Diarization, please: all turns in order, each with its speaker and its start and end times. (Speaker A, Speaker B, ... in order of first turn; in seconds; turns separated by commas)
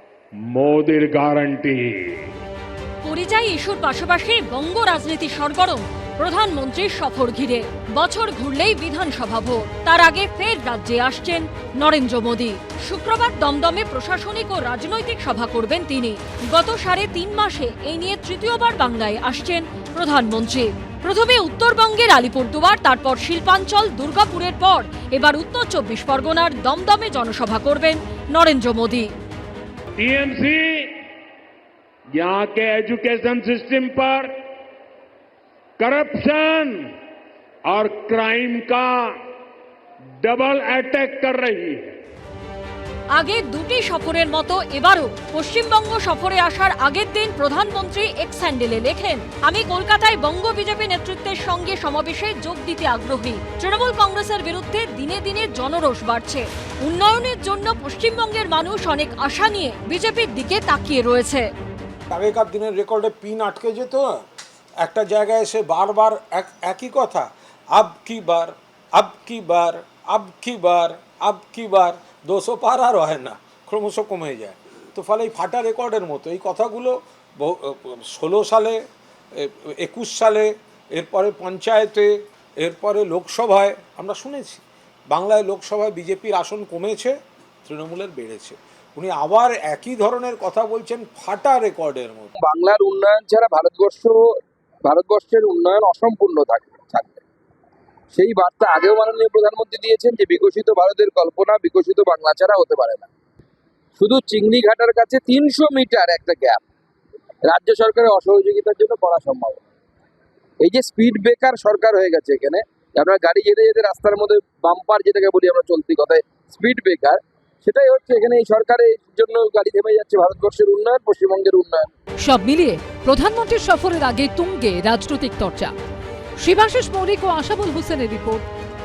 Speaker A: 0.5-1.9, Speaker B: 3.0-29.1, Speaker A: 30.0-30.9, Speaker A: 32.1-34.3, Speaker A: 35.8-36.9, Speaker A: 37.7-39.2, Speaker A: 40.2-41.9, Speaker B: 43.1-61.5, Speaker C: 62.1-64.2, Speaker C: 64.8-78.8, Speaker C: 79.3-92.3, Speaker D: 92.4-94.2, Speaker D: 94.8-97.2, Speaker D: 98.1-103.1, Speaker D: 104.0-106.6, Speaker D: 107.5-109.6, Speaker D: 110.6-121.9, Speaker E: 122.2-125.7, Speaker E: 126.4-128.5